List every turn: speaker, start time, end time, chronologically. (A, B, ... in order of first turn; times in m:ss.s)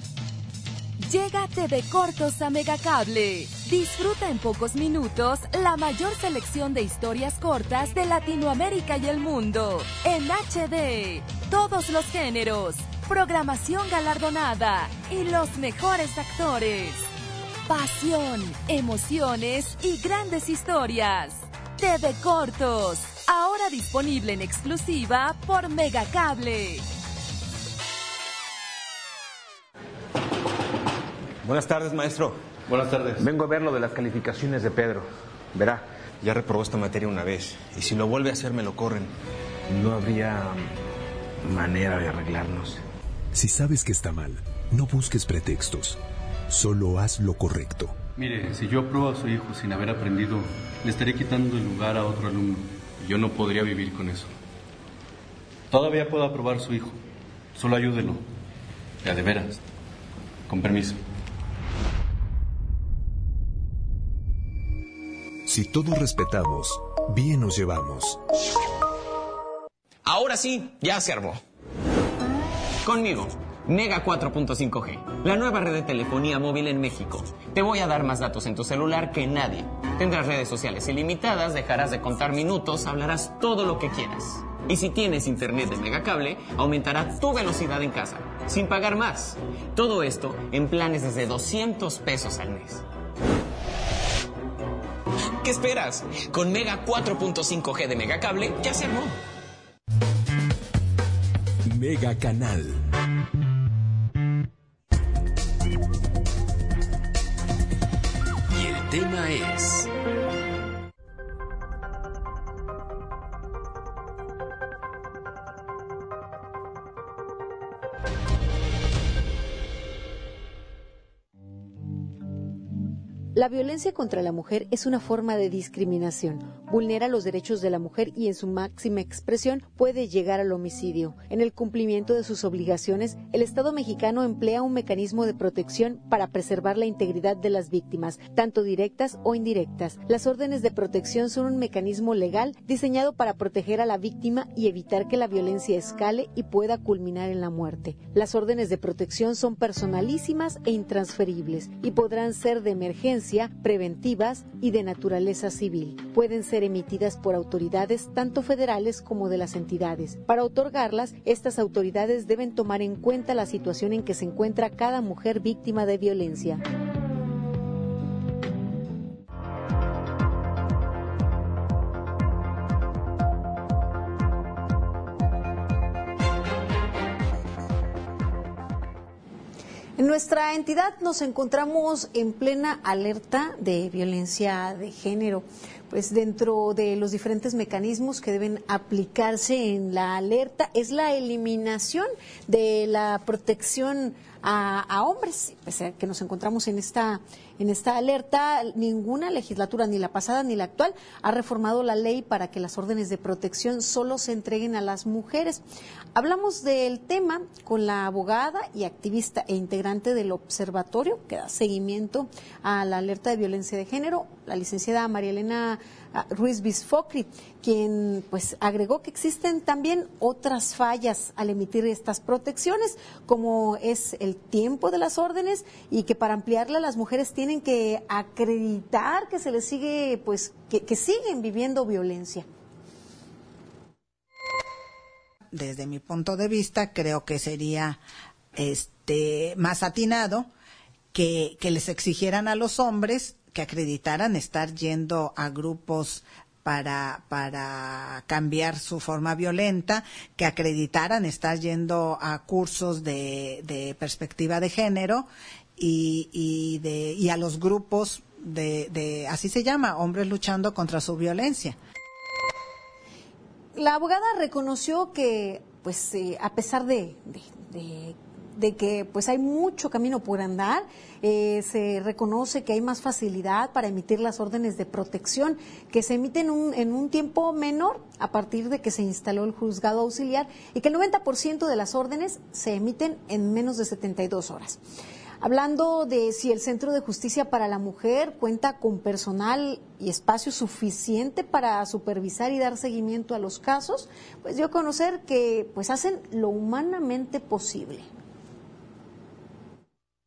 0:01.0-0:17.1 A
0:17.7-0:26.8 A
0:31.4-0:32.4 B
0:32.7-0:33.2 C
0:33.1-0:39.1 B
0:39.7-0:40.7 B
0:41.4-0:42.8 B
0:43.3-0:47.9 D
0:48.2-0:54.3 C
0:55.7-0:57.0 C
0:57.6-0:58.2 C
0:59.0-0:59.6 C
1:00.5-1:01.0 C
1:05.4-1:08.2 D
1:10.0-1:11.4 E
1:12.8-1:32.8 E
1:35.4-1:39.2 E
1:41.7-1:42.8 D
1:48.5-1:49.9 D
2:03.4-2:46.6 F
3:00.0-3:25.6 F
3:26.1-3:52.5 F
3:55.5-3:58.0 G
3:58.6-4:00.5 G
4:01.1-4:21.8 G
4:23.8-4:44.8 F
4:45.4-4:58.1 F